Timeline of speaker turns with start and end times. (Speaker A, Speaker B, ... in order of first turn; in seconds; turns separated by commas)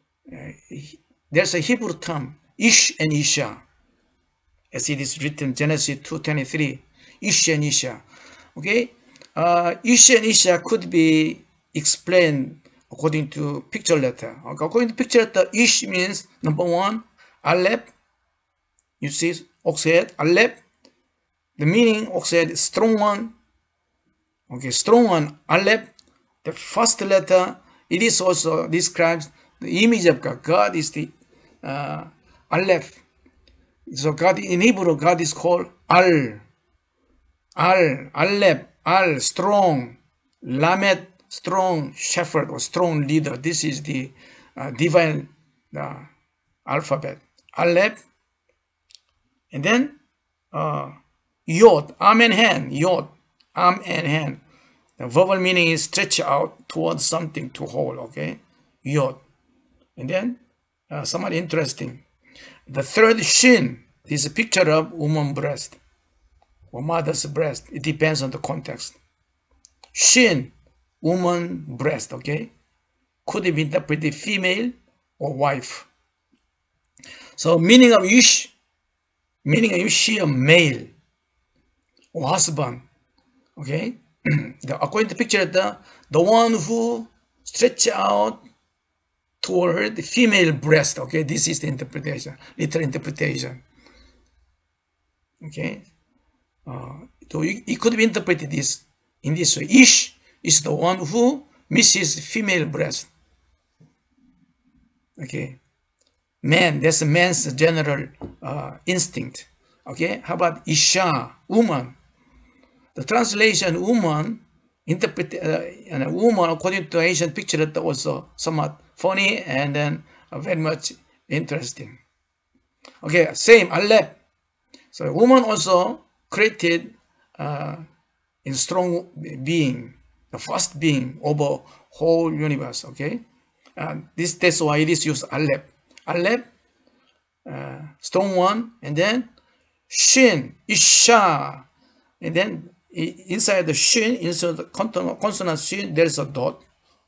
Speaker A: 0.3-3.6, Speaker A: 4.7-8.0, Speaker A: 8.6-17.9, Speaker A: 19.0-20.6, Speaker A: 21.6-23.3, Speaker A: 24.5-25.9, Speaker A: 26.4-33.0, Speaker A: 33.9-36.5, Speaker A: 37.6-46.1, Speaker A: 46.6-48.0, Speaker A: 49.5-50.0, Speaker A: 50.5-54.4, Speaker A: 55.0-59.2, Speaker A: 60.0-62.0, Speaker A: 62.7-65.8, Speaker A: 66.7-69.0, Speaker A: 69.9-72.5, Speaker A: 73.2-75.9, Speaker A: 77.4-78.5, Speaker A: 79.4-80.9, Speaker A: 82.1-82.8, Speaker A: 83.6-88.4, Speaker A: 89.4-93.6, Speaker A: 95.4-95.9, Speaker A: 96.7-103.1, Speaker A: 105.2-105.6, Speaker A: 106.4-112.0, Speaker A: 112.9-122.0, Speaker A: 123.0-124.2, Speaker A: 124.9-127.8, Speaker A: 128.4-133.2, Speaker A: 133.8-136.4, Speaker A: 137.4-139.3, Speaker A: 139.9-141.7, Speaker A: 142.2-146.6